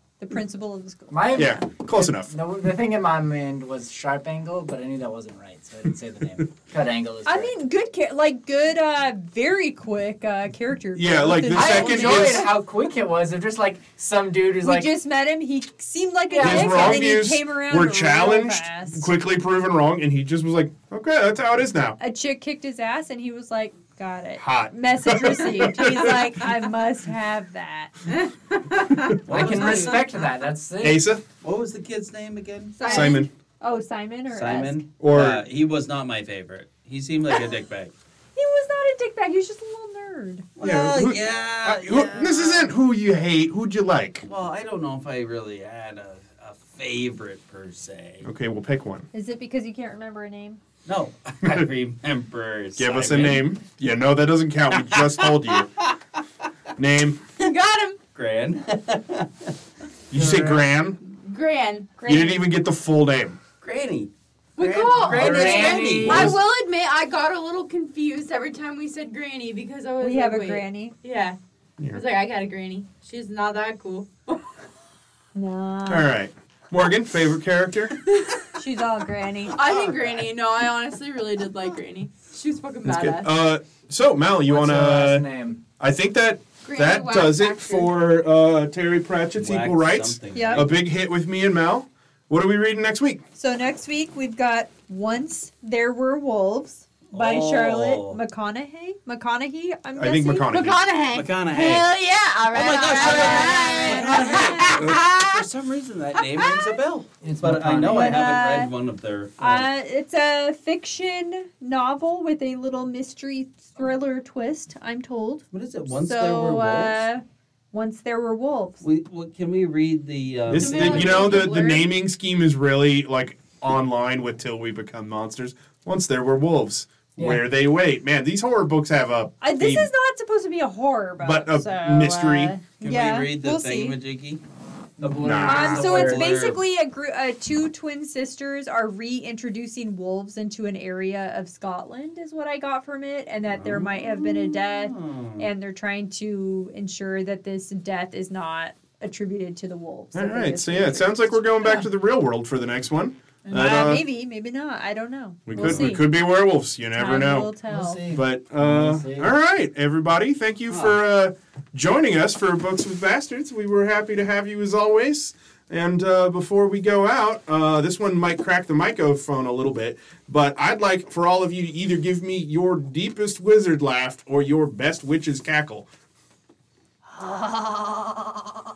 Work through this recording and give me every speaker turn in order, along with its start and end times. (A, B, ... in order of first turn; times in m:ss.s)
0:00.2-0:01.5 A
0:01.1-0:07.5 B
0:01.4-0:02.3 C
0:07.3-0:12.5 A
0:11.0-0:12.5 C
0:11.5-0:14.9 B
0:14.6-0:19.1 A
0:16.3-0:17.1 B
0:16.4-0:22.0 C
0:22.0-0:28.0 A
0:24.4-0:26.4 C
0:28.1-0:29.2 D
0:29.2-0:30.1 E
0:29.3-0:31.1 B
0:30.8-0:31.2 C
0:31.4-0:32.8 E
0:32.8-0:33.3 D
0:32.9-0:33.3 C
0:32.9-0:34.8 A
0:34.3-0:37.9 E
0:35.0-0:35.4 C
0:38.4-0:40.5 A
0:40.6-0:42.7 E
0:40.6-0:44.2 C
0:44.2-0:48.3 E
0:48.2-0:49.1 C
0:49.1-0:50.6 A
0:50.9-0:53.5 E
0:52.8-0:55.7 C
0:54.8-0:55.3 E
0:56.8-0:57.2 C
0:57.4-0:58.0 D
0:58.2-0:59.5 E
1:00.1-1:01.0 C
1:00.1-1:00.7 B
1:01.2-1:02.0 D
1:02.0-1:02.4 A
1:02.0-1:03.4 C
1:03.6-1:06.4 E
1:04.6-1:11.4 D
1:05.0-1:06.4 B
1:05.2-1:06.4 C
1:10.0-1:11.0 A
1:11.9-1:14.5 D
1:15.4-1:16.1 A
1:15.9-1:18.0 C
1:18.5-1:19.6 A
1:19.5-1:23.3 D
1:19.6-1:20.4 E
1:22.8-1:25.3 C
1:24.5-1:25.6 B
1:25.8-1:33.2 C
1:26.6-1:27.9 D
1:29.4-1:30.8 E
1:30.3-1:30.7 A
1:33.4-1:40.5 A
1:37.1-1:38.2 E
1:40.0-1:40.8 C
1:40.5-1:45.4 D
1:41.1-1:41.9 E
1:42.5-1:49.6 E
1:43.0-1:44.2 A
1:46.2-1:46.8 D
1:47.2-1:48.3 B
1:47.9-1:48.7 A
1:49.4-1:58.8 A
1:55.5-1:57.0 E
1:58.8-2:01.7 E
2:00.5-2:09.9 C
2:00.5-2:01.9 D
2:07.2-2:07.4 B
2:09.4-2:14.0 A
2:11.2-2:12.5 C
2:12.8-2:14.4 E
2:15.0-2:16.3 B
2:15.0-2:16.6 E
2:15.2-2:15.9 C
2:15.5-2:31.9 A
2:23.6-2:25.5 E
2:30.2-2:34.0 C
2:33.5-2:36.1 A
2:35.5-2:37.5 C
2:35.6-2:35.9 E
2:37.0-2:38.0 A
2:37.7-2:38.1 E
2:38.0-2:39.3 B
2:38.1-2:55.9 C
2:40.7-2:41.0 E
2:57.2-2:57.8 A
2:57.4-2:58.3 D